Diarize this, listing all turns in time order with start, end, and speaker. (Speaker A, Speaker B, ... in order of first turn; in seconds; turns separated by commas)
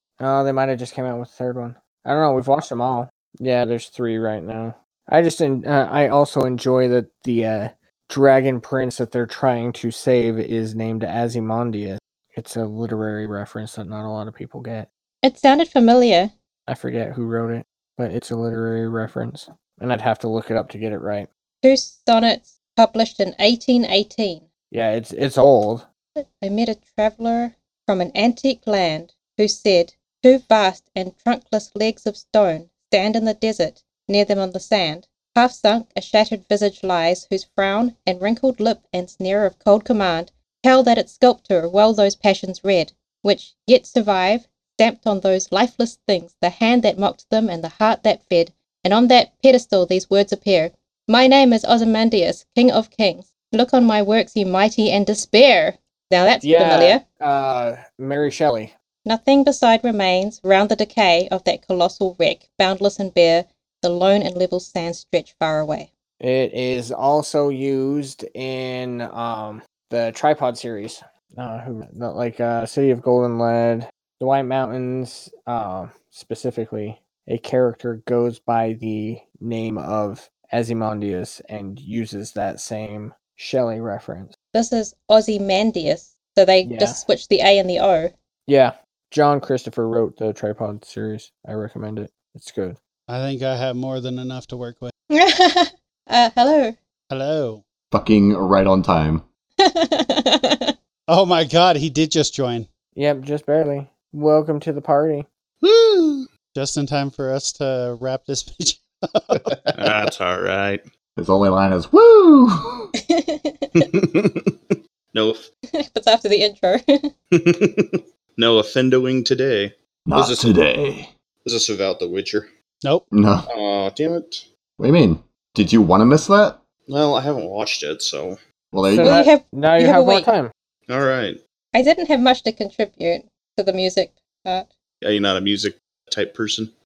Speaker A: 0.2-14.9, Speaker B: 15.2-16.3, Speaker A: 16.7-21.3, Speaker B: 21.6-24.4, Speaker A: 24.7-25.9, Speaker B: 26.2-57.0, Speaker A: 56.4-58.7, Speaker B: 59.0-65.9, Speaker A: 66.2-84.3, Speaker B: 84.5-88.1, Speaker A: 86.6-87.0, Speaker A: 88.5-92.8, Speaker C: 93.1-94.9, Speaker B: 95.1-96.8, Speaker C: 97.1-97.6, Speaker D: 97.9-99.2, Speaker B: 99.6-100.7, Speaker C: 101.1-102.7, Speaker A: 103.0-105.3, Speaker E: 105.6-106.2, Speaker C: 106.5-109.5, Speaker E: 109.7-110.8, Speaker D: 111.2-112.9, Speaker B: 113.0-113.8, Speaker E: 113.8-115.5, Speaker B: 115.7-117.1, Speaker E: 117.3-120.5, Speaker D: 120.1-121.1, Speaker E: 121.4-122.5, Speaker D: 123.1-123.5, Speaker E: 123.5-124.5, Speaker D: 124.8-126.6, Speaker E: 126.9-128.4, Speaker D: 128.7-129.2, Speaker A: 128.9-130.5, Speaker B: 129.0-130.3, Speaker E: 130.9-131.4, Speaker B: 131.7-134.7, Speaker E: 135.0-136.7